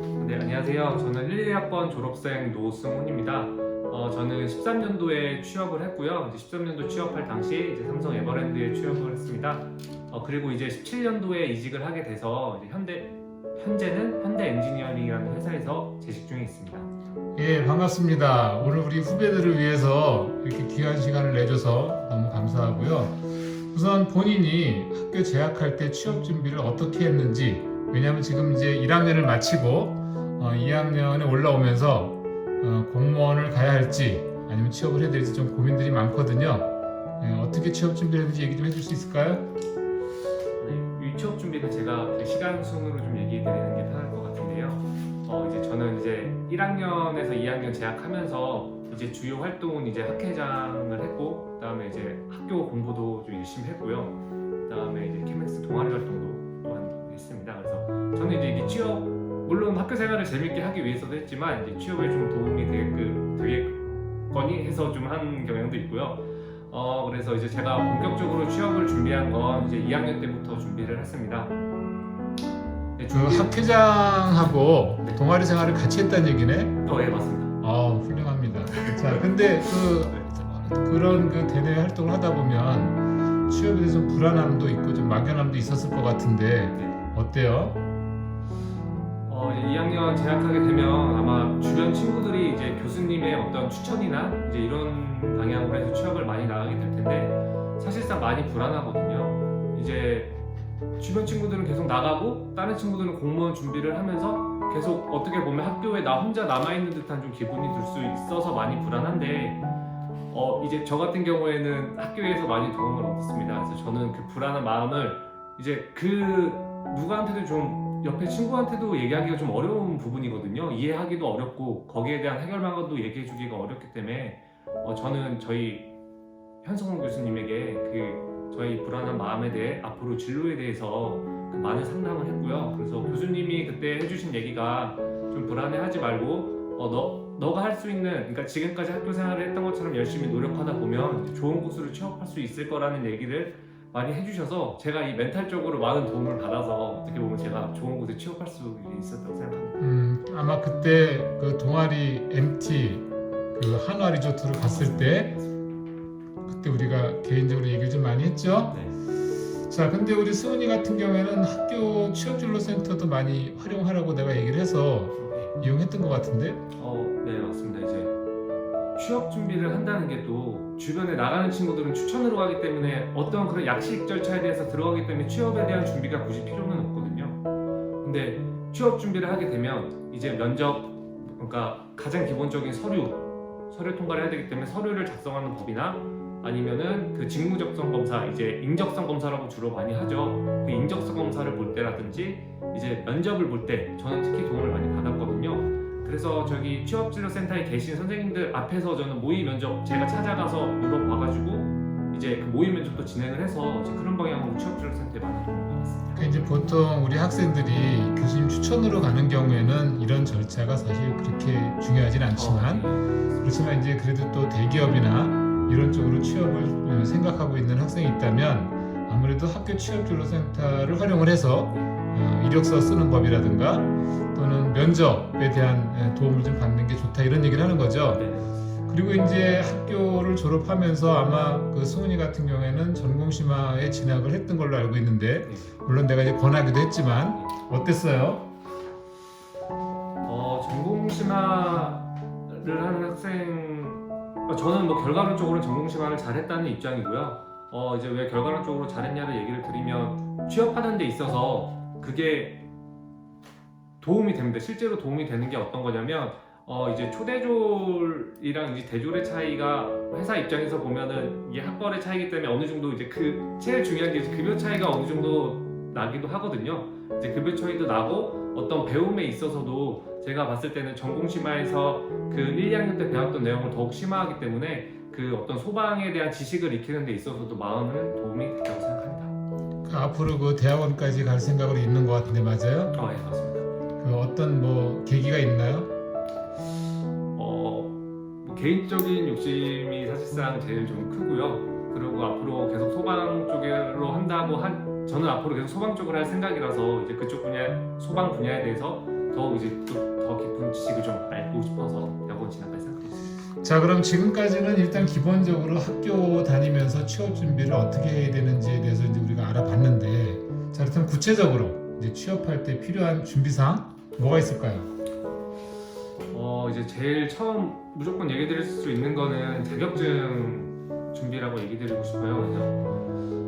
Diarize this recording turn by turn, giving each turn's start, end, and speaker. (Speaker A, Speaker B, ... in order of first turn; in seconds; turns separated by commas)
Speaker A: 0.2-16.9, Speaker B: 17.4-39.4, Speaker A: 40.6-54.2, Speaker A: 54.7-63.8, Speaker A: 64.3-71.5, Speaker A: 73.0-73.5, Speaker B: 73.1-76.8, Speaker A: 76.8-77.5, Speaker B: 77.6-87.8, Speaker A: 78.8-79.2, Speaker A: 89.3-100.3, Speaker A: 101.0-109.6, Speaker A: 110.3-125.9, Speaker A: 126.6-149.8, Speaker B: 149.8-155.3, Speaker A: 155.0-155.5, Speaker B: 156.4-158.8, Speaker B: 159.7-166.6, Speaker A: 165.2-165.5, Speaker A: 166.8-168.1, Speaker A: 168.9-177.4, Speaker A: 178.0-206.3, Speaker B: 206.2-212.9, Speaker A: 212.3-213.4, Speaker B: 213.4-228.3, Speaker A: 228.2-228.6, Speaker B: 228.9-238.5, Speaker A: 240.2-252.6, Speaker A: 254.0-279.4, Speaker B: 279.8-282.9, Speaker A: 282.9-283.7, Speaker B: 284.0-285.9, Speaker A: 287.4-303.3, Speaker B: 303.6-314.9, Speaker A: 316.3-322.8